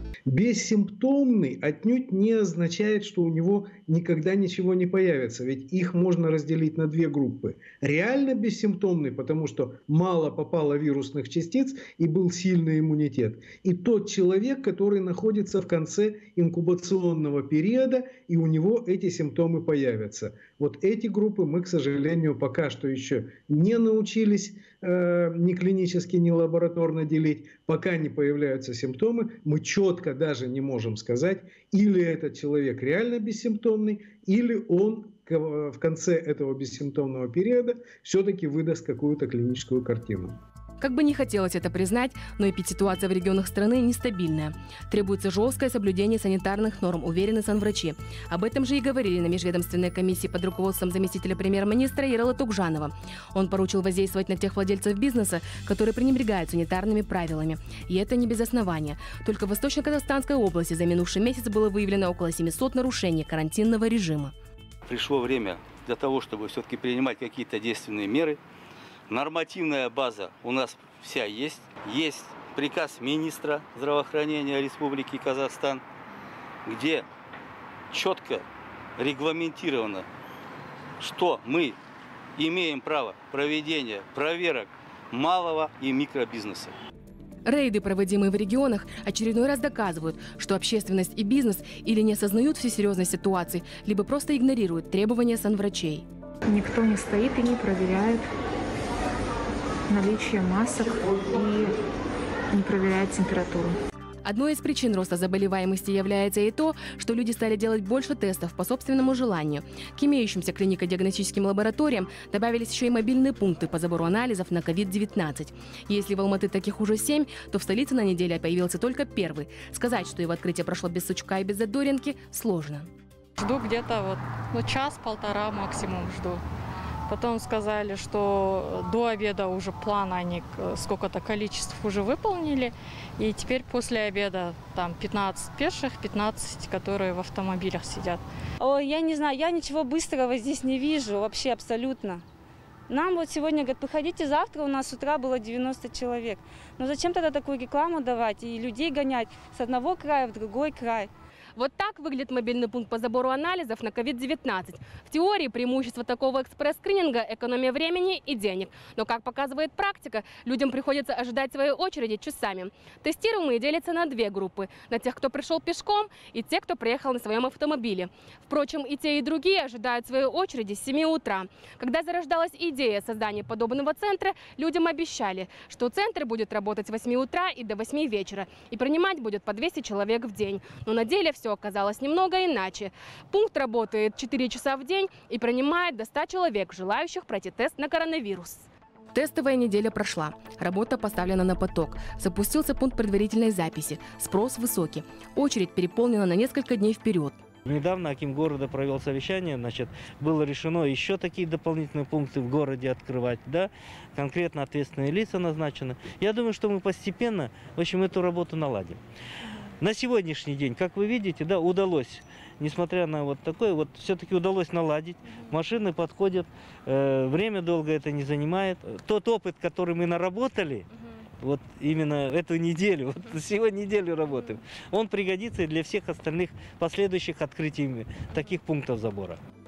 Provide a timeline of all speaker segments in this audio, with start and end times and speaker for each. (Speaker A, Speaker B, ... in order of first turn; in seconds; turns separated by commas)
Speaker A: 0.3-40.4, Speaker B: 40.8-64.3, Speaker C: 64.8-68.4, Speaker C: 69.1-75.8, Speaker C: 76.7-77.1, Speaker C: 77.9-78.4, Speaker C: 79.0-80.0, Speaker C: 81.0-81.8, Speaker C: 82.4-86.7, Speaker B: 87.4-96.0, Speaker D: 96.5-98.2, Speaker D: 99.9-101.8, Speaker D: 102.5-103.8, Speaker B: 104.2-122.9, Speaker E: 123.4-126.4, Speaker E: 127.1-138.2, Speaker F: 138.6-142.2, Speaker F: 142.9-151.1, Speaker B: 151.6-197.3, Speaker G: 197.6-209.0, Speaker G: 209.8-220.9, Speaker G: 221.4-229.4